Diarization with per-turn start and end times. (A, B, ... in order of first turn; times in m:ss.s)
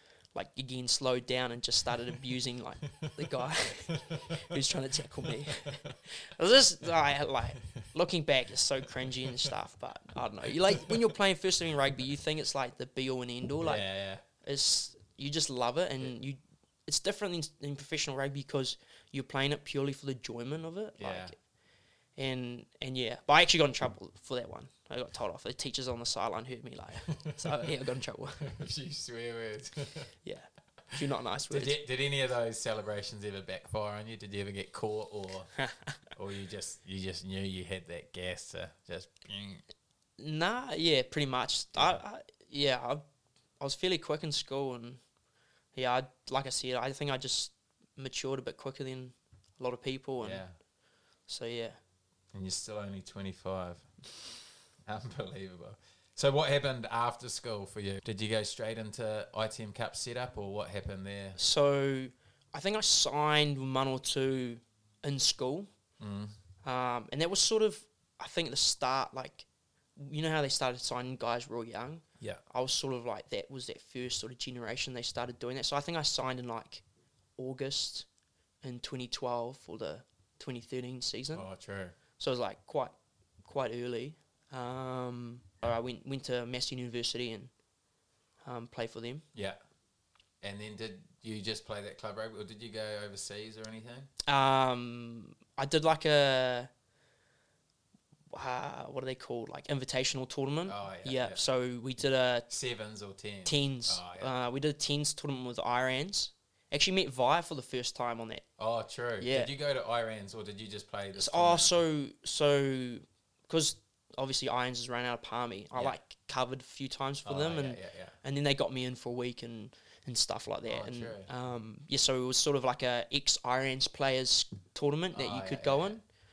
0:00.3-0:13.8 A
0:03.9-0:04.2 B
0:05.2-0:05.9 B
0:13.6-0:14.2 B
0:14.4-0:21.3 A
0:21.0-0:21.3 B
0:22.2-0:28.4 A
0:27.2-0:27.6 B
0:28.4-0:30.1 B
0:30.2-0:31.8 A
0:31.5-0:35.5 B
0:36.1-0:39.6 B
0:40.2-0:43.0 A
0:43.6-0:45.0 A
0:45.7-0:50.4 A
0:50.2-0:50.5 B
0:51.3-0:51.8 A
0:52.3-0:53.9 B
0:54.8-1:01.4 B
1:01.4-1:05.7 A
1:06.0-1:06.3 B
1:06.6-1:16.8 A
1:17.4-1:18.1 A
1:18.6-1:21.4 A
1:21.3-1:22.0 B
1:22.2-1:27.5 A
1:28.4-1:29.2 A
1:30.4-1:34.1 B
1:34.3-1:36.7 A
1:38.3-1:42.5 A
1:40.6-1:41.4 B
1:42.5-1:44.3 B
1:43.4-1:48.4 A
1:48.6-1:51.7 B
1:49.2-1:49.5 A
1:51.2-2:06.0 A
1:57.2-1:58.2 B
2:00.6-2:01.3 B
2:05.1-2:06.0 B